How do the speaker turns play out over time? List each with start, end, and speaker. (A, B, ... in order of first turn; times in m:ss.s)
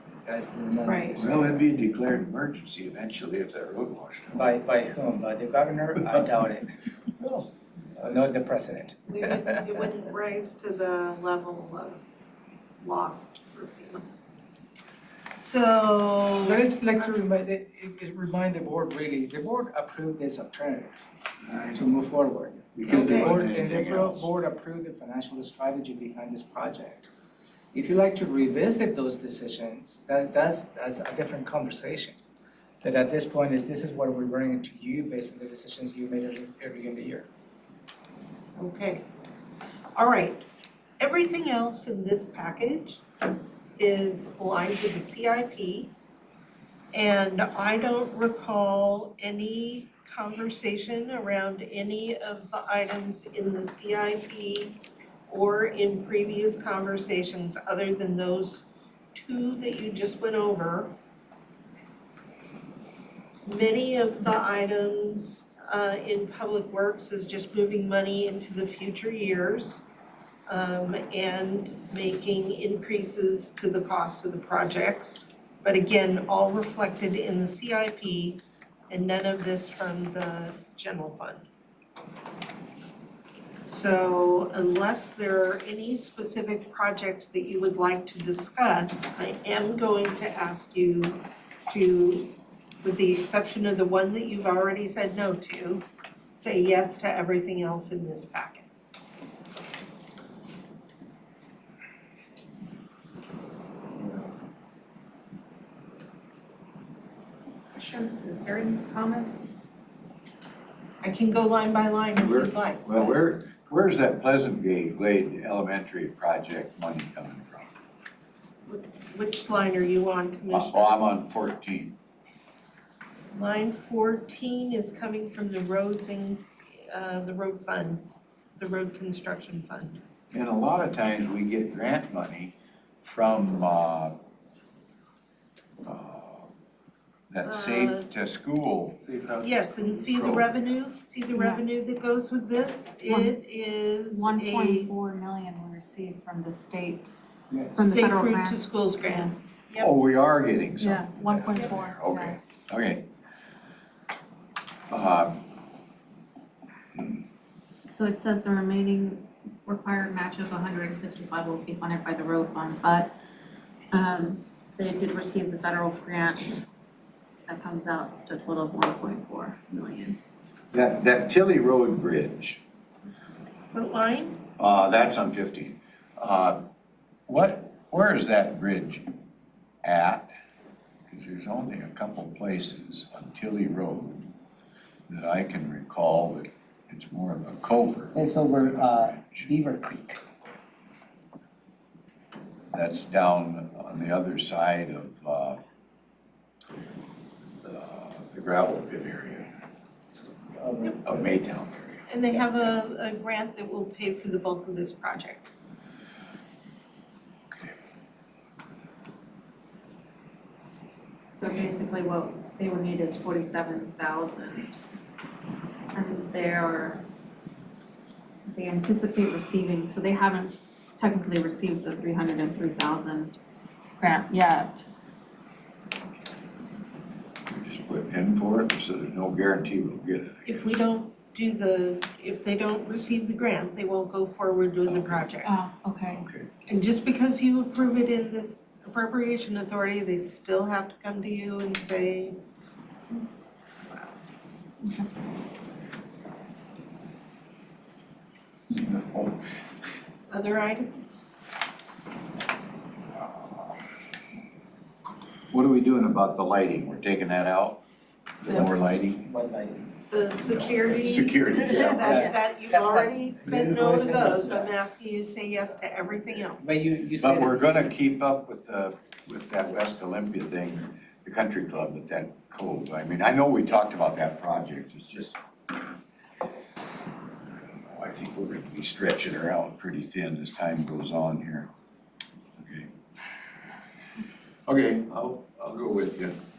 0:00.2-0:01.6 A
0:00.8-0:01.2 B
0:01.1-0:04.5 C
0:04.3-0:06.7 A
0:07.2-0:09.7 A
0:09.1-0:12.0 B
0:12.8-0:14.1 B
0:15.4-0:16.6 B
0:16.4-0:20.9 A
0:21.6-0:27.1 A
0:22.8-0:24.3 C
0:22.9-0:23.4 B
0:27.7-0:32.2 A
0:32.8-0:37.3 A
0:38.6-0:39.0 B
0:40.0-0:40.4 B
0:41.0-0:43.0 B
0:43.8-0:45.9 B
0:46.9-1:00.9 B
1:03.4-1:09.8 B
1:10.5-1:21.4 B
1:23.7-1:38.7 B
1:47.7-1:49.5 D
1:51.0-1:53.2 B
1:52.2-1:57.7 C
1:58.7-2:01.0 B
2:00.5-2:02.0 C
2:03.3-2:08.0 B
2:08.6-2:10.0 B
2:10.3-2:14.1 C
2:15.8-2:16.5 C
2:17.3-2:19.0 C
2:17.4-2:18.1 B
2:19.1-2:19.4 A
2:19.4-2:24.9 B
2:20.1-2:20.4 C
2:21.4-2:21.6 D
2:24.1-2:27.1 D
2:27.7-2:29.3 D
2:27.8-2:29.9 B
2:29.8-2:33.0 C
2:30.8-2:32.4 D
2:34.9-2:35.4 C
2:37.8-2:43.1 D
2:43.9-2:46.6 D
2:47.5-2:50.2 D
2:50.7-2:52.6 C
2:53.7-2:54.4 B
2:54.6-2:56.6 C
2:57.3-2:59.1 C
2:59.8-3:00.3 C
3:01.1-3:04.3 C
3:05.1-3:09.5 C
3:08.1-3:10.2 A
3:12.7-3:15.6 C
3:17.6-3:19.5 C
3:20.6-3:21.1 A
3:21.0-3:22.1 C
3:22.1-3:25.5 B
3:31.3-3:35.3 D
3:35.9-3:37.1 D
3:38.5-3:43.4 D
3:44.0-3:44.8 D
3:47.5-3:50.6 C
3:50.4-3:55.5 B
3:54.8-3:55.3 C
3:55.4-3:56.2 D
3:56.0-3:56.5 C
3:56.7-4:02.4 B
4:03.9-4:04.2 B
4:04.8-4:05.1 D
4:08.7-4:09.4 C
4:10.3-4:11.3 B
4:15.5-4:17.8 C
4:18.4-4:19.2 C
4:18.4-4:19.9 A
4:20.1-4:26.6 B
4:20.4-4:22.3 C
4:22.0-4:24.7 A
4:26.6-4:27.9 A
4:27.2-4:35.4 C
4:37.8-4:41.7 C
4:42.6-4:42.9 C
4:44.6-4:46.4 C